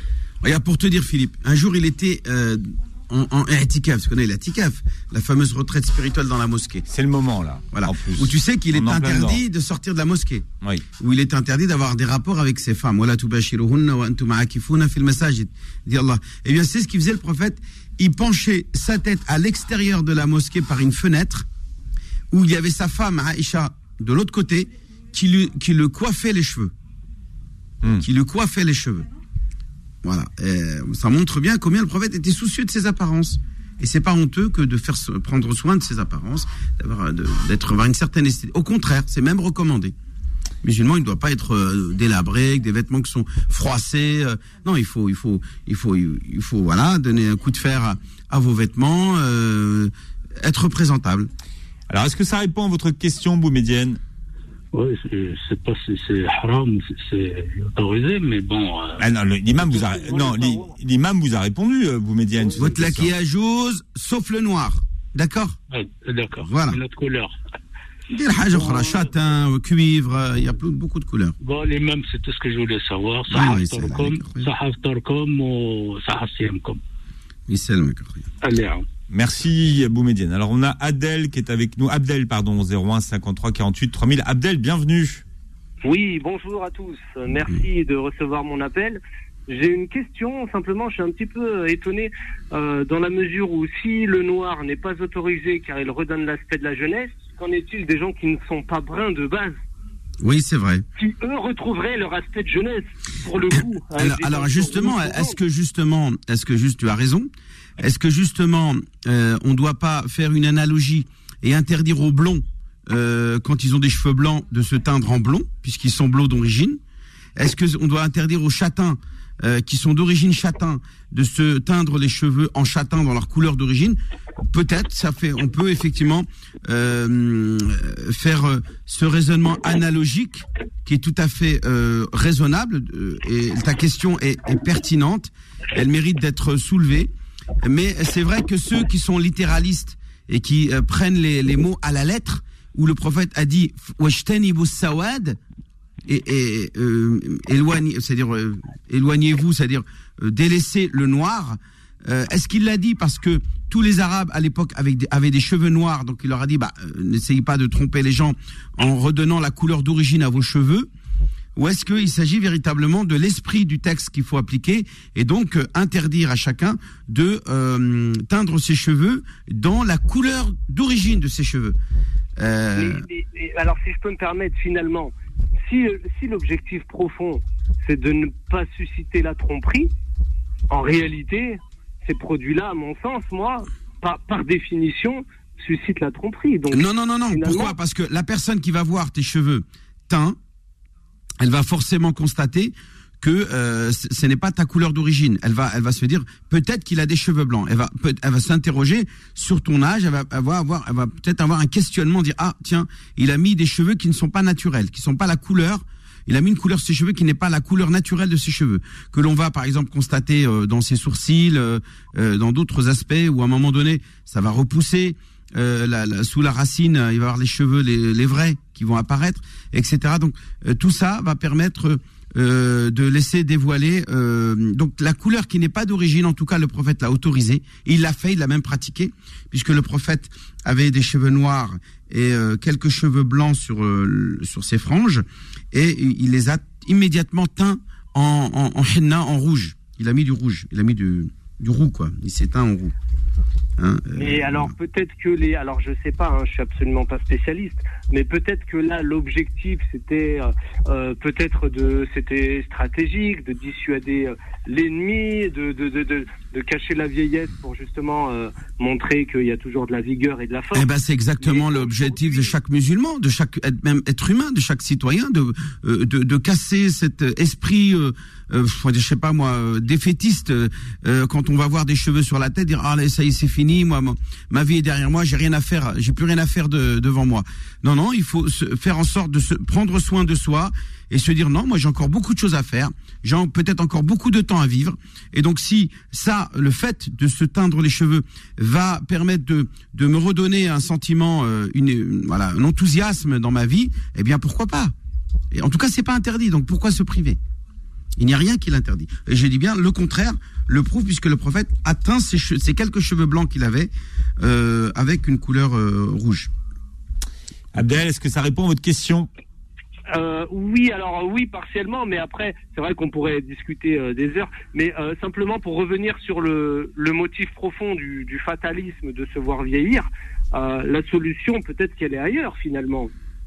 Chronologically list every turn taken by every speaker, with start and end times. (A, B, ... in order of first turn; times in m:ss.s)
0:00.4-0:06.8 A
0:06.9-0:09.4 B
0:07.7-0:10.4 A
0:11.0-0:21.4 A
0:22.3-0:26.7 A
0:28.0-0:29.1 A
0:30.0-0:39.9 A
0:40.6-0:51.3 A
0:51.9-0:54.0 B
0:54.7-0:59.0 C
0:59.0-1:03.1 B
0:59.7-1:00.7 C
1:02.5-1:05.6 A
1:05.7-1:07.3 C
1:06.4-1:06.8 A
1:08.1-1:11.4 A
1:08.5-1:09.0 C
1:11.4-1:16.8 C
1:13.3-1:14.5 A
1:17.5-1:18.2 A
1:18.4-1:18.8 C
1:19.1-1:25.2 B
1:25.8-1:39.6 D
1:40.2-1:40.8 A
1:41.0-1:45.3 D
1:44.0-1:56.8 A
1:57.4-2:04.0 A
2:04.5-2:17.1 A
2:17.6-2:25.4 A
2:26.1-2:40.9 A
2:41.6-2:51.8 A
2:52.4-2:53.0 A
2:52.8-2:55.1 D
2:55.6-2:59.9 D
3:00.7-3:07.7 D
3:06.7-3:10.4 A
3:11.4-4:02.9 A
4:03.8-4:04.7 A
4:04.2-4:20.9 D
4:20.7-4:54.9 A
4:21.4-4:22.5 D
4:55.5-4:57.4 A
4:58.2-5:06.5 A
5:07.7-5:09.3 B
5:10.1-5:23.1 D